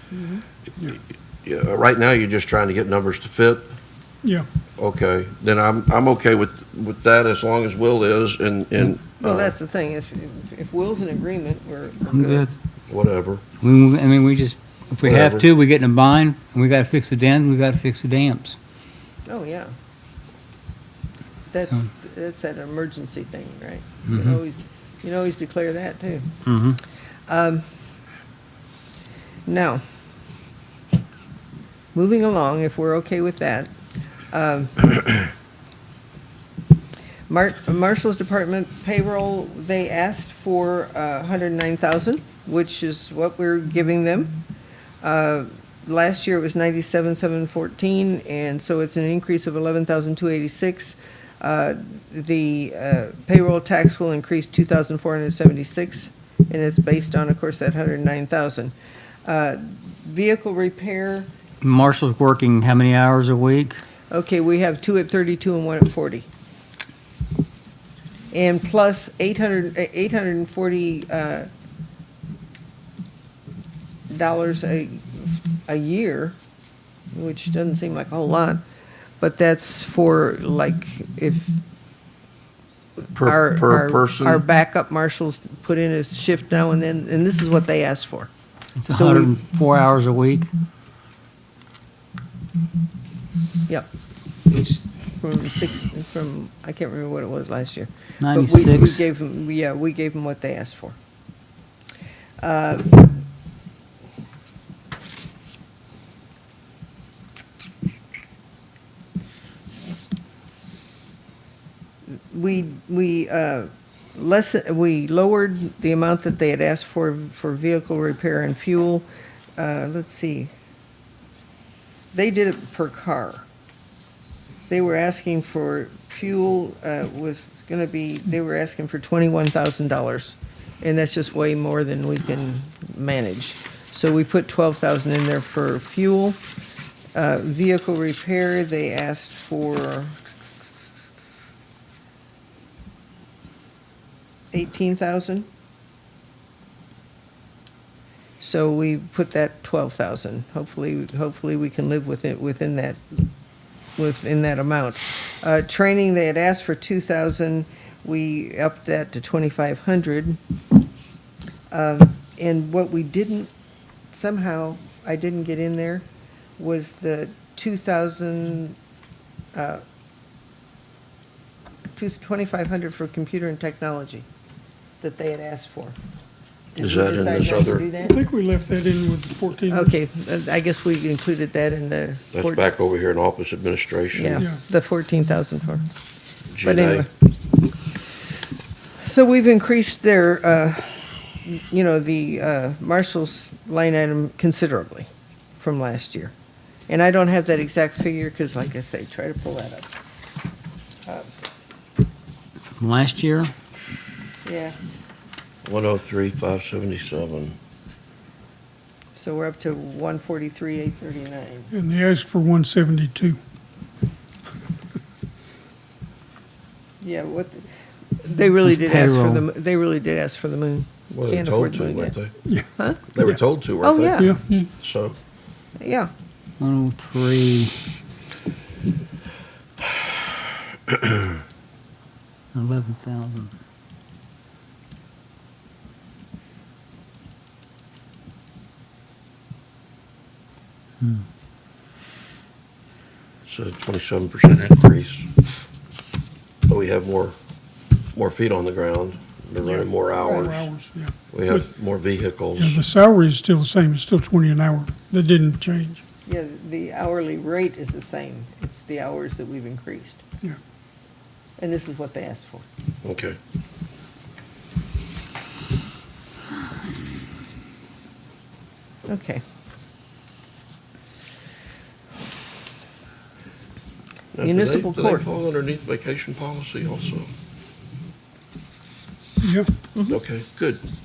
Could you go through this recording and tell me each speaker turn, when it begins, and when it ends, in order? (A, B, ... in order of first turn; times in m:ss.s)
0:00.1-0:00.4 A
0:00.8-0:03.7 B
0:04.8-0:09.5 B
0:09.2-0:12.5 A
0:12.0-0:12.5 C
0:12.9-0:13.4 B
0:13.6-0:18.6 C
0:15.0-0:15.4 B
0:19.2-0:19.7 A
0:21.5-0:26.3 A
0:24.1-0:24.4 C
0:26.4-0:26.8 C
0:27.3-0:27.6 A
0:29.5-0:29.8 A
0:31.9-0:33.7 A
0:34.3-0:35.2 A
0:37.3-0:44.4 A
0:45.0-0:58.7 A
0:59.2-1:01.3 A
1:01.6-1:03.8 C
1:04.1-1:06.3 A
1:08.3-1:11.5 A
1:14.1-1:16.4 A
1:17.1-1:18.6 A
1:19.2-1:21.5 A
1:23.1-1:24.4 B
1:23.2-1:28.3 A
1:28.8-1:30.5 C
1:28.9-1:29.3 A
1:34.5-1:41.0 A
1:38.2-1:39.1 C
1:42.4-1:43.2 A
1:52.1-2:00.5 A
2:02.1-2:03.4 A
2:04.7-2:16.4 A
2:17.1-2:20.2 A
2:24.5-2:25.5 A
2:28.4-2:33.2 A
2:34.0-2:40.4 A
2:41.7-2:43.5 A
2:44.1-2:46.0 A
2:46.6-2:48.8 A
2:49.5-2:49.8 A
2:51.9-2:54.2 A
2:55.0-2:56.0 A
2:56.7-2:58.2 A
2:56.8-2:57.8 B
2:58.0-2:59.9 D
2:59.7-3:02.6 A
3:02.3-3:04.4 B
3:04.1-3:05.8 A
3:06.5-3:07.0 B
3:06.6-3:07.1 A
3:09.0-3:15.1 A
3:15.6-3:16.3 A
3:16.9-3:19.9 A
3:22.8-3:23.5 C
3:24.4-3:24.7 A
3:25.6-3:27.6 B
3:29.1-3:31.7 A
3:31.7-3:33.4 D
3:37.0-3:37.6 A
3:38.2-3:42.2 A
3:38.6-3:39.4 C
3:41.1-3:42.3 B
3:42.8-3:43.0 A
3:43.1-3:45.2 B
3:43.8-3:44.3 A
3:44.2-3:44.7 D
3:45.8-3:46.1 A
3:46.6-3:47.7 C
3:52.5-3:53.5 C
4:03.5-4:05.3 B
4:06.7-4:07.4 B
4:08.1-4:10.7 B
4:09.6-4:11.6 D
4:10.2-4:10.5 A
4:11.3-4:12.8 B
4:12.6-4:16.0 D
4:16.2-4:20.2 A
4:21.6-4:22.6 A
4:23.0-4:23.4 B
4:29.1-4:29.4 A
4:34.3-4:37.3 B
4:34.4-4:35.2 A
4:39.4-4:39.7 D
4:40.1-4:40.8 B